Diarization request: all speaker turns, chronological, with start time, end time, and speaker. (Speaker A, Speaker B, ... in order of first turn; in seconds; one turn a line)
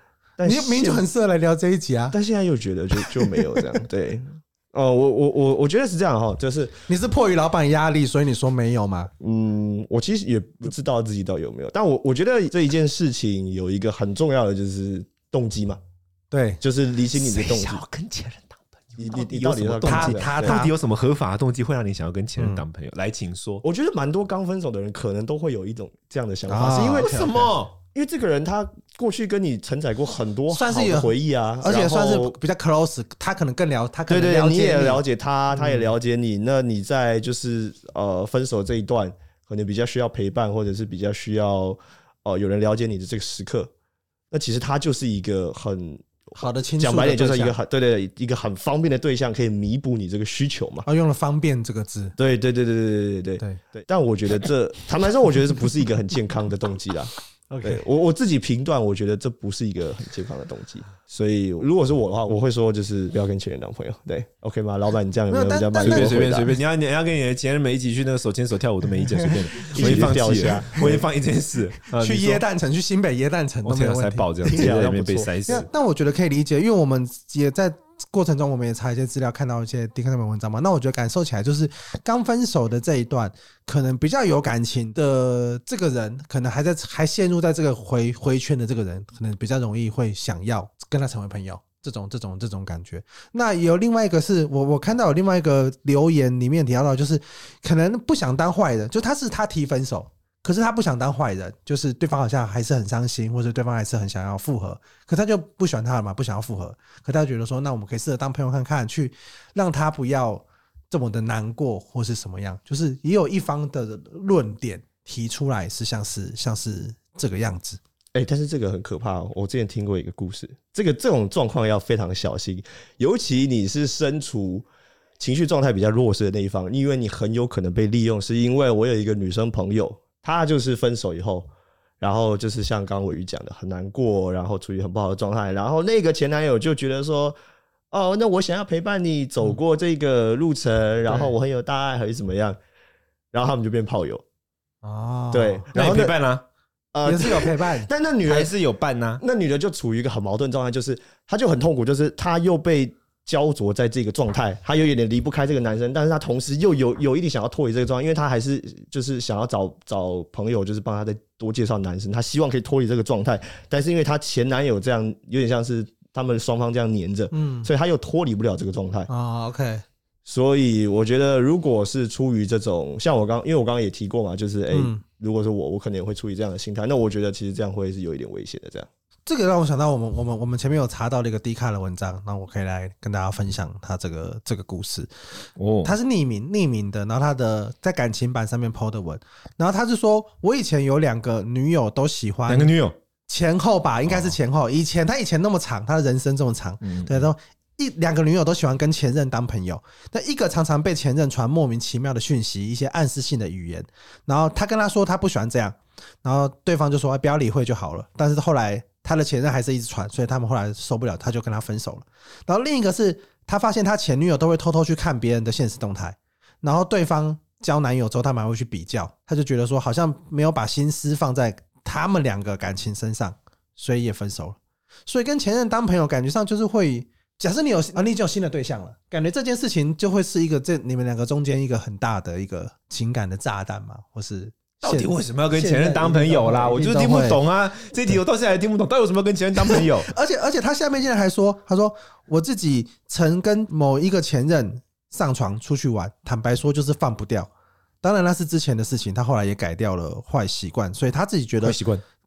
Speaker A: 0.4-1.1
Speaker B: 0.4-2.2
Speaker A: 2.1-6.7
Speaker B: 6.9-9.1
Speaker A: 9.2-15.8
Speaker B: 16.3-16.6
Speaker A: 16.6-17.8
Speaker C: 17.1-23.6
Speaker A: 19.0-20.6
Speaker B: 19.8-20.7
Speaker B: 22.4-22.6
Speaker A: 23.6-32.4
Speaker B: 26.5-27.4
Speaker C: 27.0-27.7
Speaker B: 30.5-35.0
Speaker A: 34.1-43.7
Speaker B: 35.5-35.9
Speaker A: 44.3-50.9
Speaker B: 46.4-47.6
Speaker B: 50.9-52.1
Speaker A: 52.2-57.1
Speaker B: 57.5-57.8
Speaker A: 57.6-66.5
Speaker B: 65.3-66.2
Speaker C: 65.8-72.4
Speaker B: 69.1-70.1
Speaker A: 69.7-71.0
Speaker B: 72.0-74.7
Speaker C: 73.6-75.7
Speaker A: 74.5-75.3
Speaker B: 75.5-117.8
Speaker A: 118.1-124.7
Speaker A: 125.2-131.5
Speaker A: 132.0-137.4
Speaker A: 137.9-142.6
Speaker B: 141.1-141.3
Speaker A: 143.3-144.2
Speaker B: 144.8-145.7
Speaker A: 145.3-146.2
Speaker C: 145.7-146.4
Speaker A: 146.9-148.5
Speaker B: 147.0-147.9
Speaker C: 148.2-149.2
Speaker A: 149.2-169.1
Speaker B: 167.3-167.7
Speaker B: 169.1-169.8
Speaker A: 170.2-178.9
Speaker B: 174.7-175.0
Speaker B: 179.3-185.1
Speaker C: 185.6-185.9
Speaker B: 185.8-192.7
Speaker C: 192.5-192.9
Speaker B: 193.3-237.4
Speaker C: 194.1-194.3
Speaker C: 196.8-197.3
Speaker C: 234.8-240.1
Speaker B: 239.6-247.5
Speaker B: 248.0-251.8
Speaker C: 251.6-252.0